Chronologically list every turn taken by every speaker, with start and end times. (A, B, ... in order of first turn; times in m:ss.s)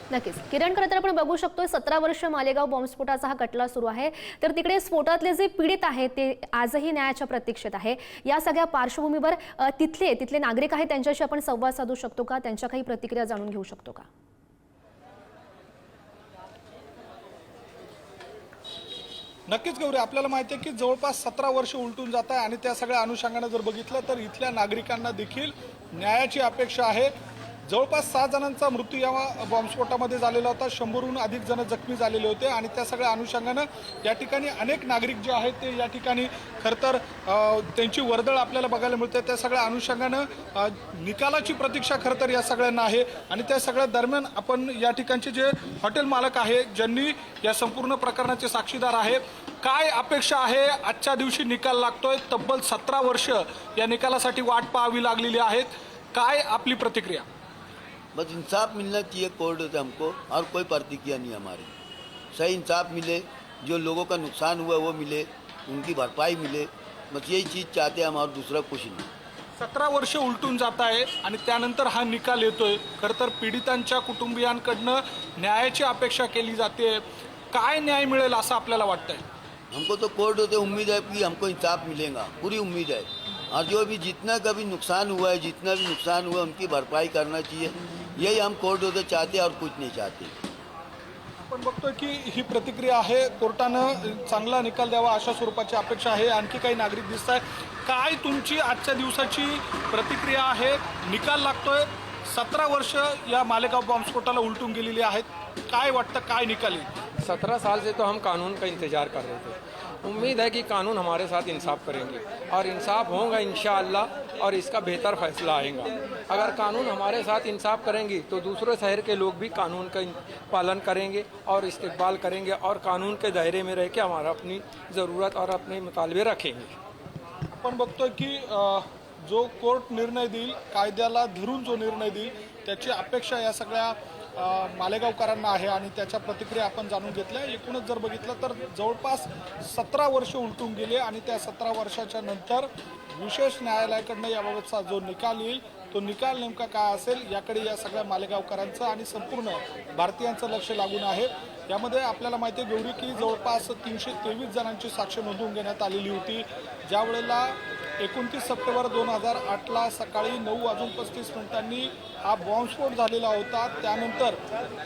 0:00.1-0:14.1 A
0:19.5-0:27.1 B
0:27.7-0:57.3 B
0:58.1-1:01.8 C
1:02.3-1:09.1 C
1:09.6-1:19.2 B
1:19.7-1:30.4 C
1:31.4-1:46.9 B
1:47.2-2:06.8 D
2:07.5-2:44.4 B